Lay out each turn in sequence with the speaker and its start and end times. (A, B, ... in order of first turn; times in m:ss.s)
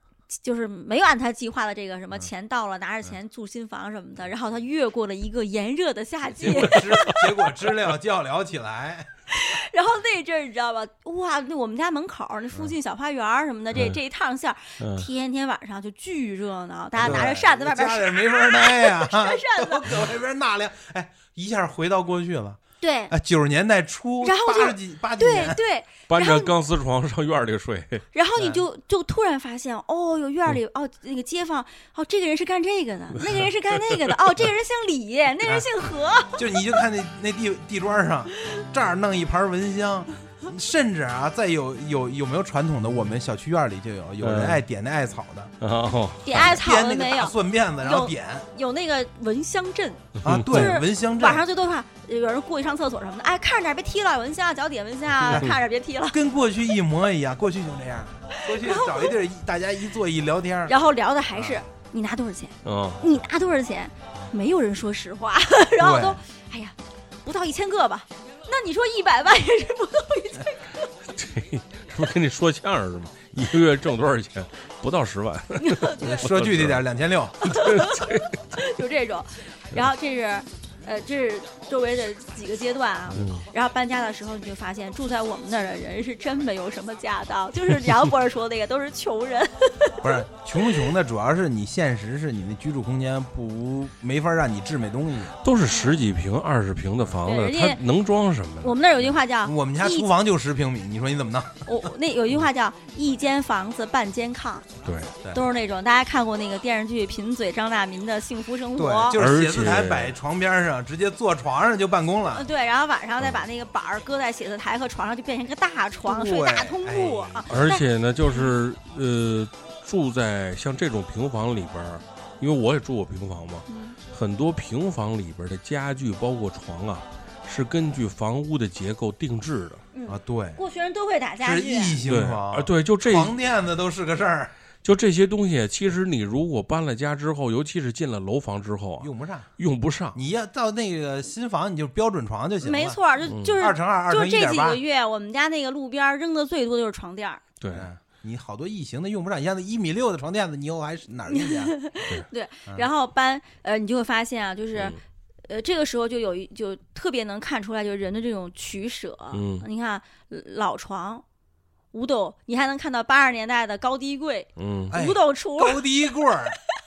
0:00.3-0:07.2 A
0:06.3-0:09.1 B
0:09.3-0:19.9 A
0:13.7-0:14.0 C
0:14.8-0:15.1 C
0:17.0-0:25.6 B
0:22.8-0:23.1 A
0:24.2-0:26.5 A
0:26.1-0:28.0 C
0:28.1-0:36.4 A
0:36.4-0:45.5 B
0:44.2-0:44.6 C
0:45.6-0:46.5 C
0:46.2-0:56.2 A
0:46.3-0:48.5 B
0:50.2-0:50.8 C
0:50.2-0:51.4 B
0:55.2-0:55.6 C
0:55.3-0:55.6 B
0:56.1-1:00.8 B
0:58.4-0:59.1 A
1:00.7-1:10.9 A
1:01.4-1:01.6 B
1:02.6-1:03.0 C
1:05.8-1:06.2 B
1:11.1-1:16.8 C
1:15.6-1:16.3 A
1:16.0-1:17.5 B
1:17.4-1:30.0 A
1:17.5-1:18.4 C
1:23.1-1:23.5 C
1:30.0-1:35.4 B
1:35.4-1:38.8 C
1:35.7-1:36.0 A
1:37.2-1:37.8 A
1:38.6-1:40.1 A
1:39.4-1:41.7 B
1:41.6-1:44.7 A
1:44.8-1:45.2 C
1:45.3-1:49.2 A
1:48.8-1:52.5 B
1:49.2-1:50.2 C
1:52.4-1:58.5 A
1:56.0-1:57.4 B
1:57.5-2:09.8 C
2:03.7-2:04.0 A
2:09.9-2:12.0 A
2:10.1-2:10.6 B
2:11.4-2:14.5 B
2:12.1-2:13.3 C
2:14.8-2:20.2 C
2:19.0-2:19.5 B
2:20.1-2:23.0 B
2:22.6-2:27.4 A
2:23.3-2:23.6 C
2:23.6-2:24.8 B
2:27.6-2:27.9 C
2:27.7-2:31.8 B
2:31.3-2:35.0 A
2:35.5-2:41.2 A
2:39.3-2:39.6 C
2:41.9-2:45.8 A
2:44.6-2:45.0 C
2:44.9-2:46.6 B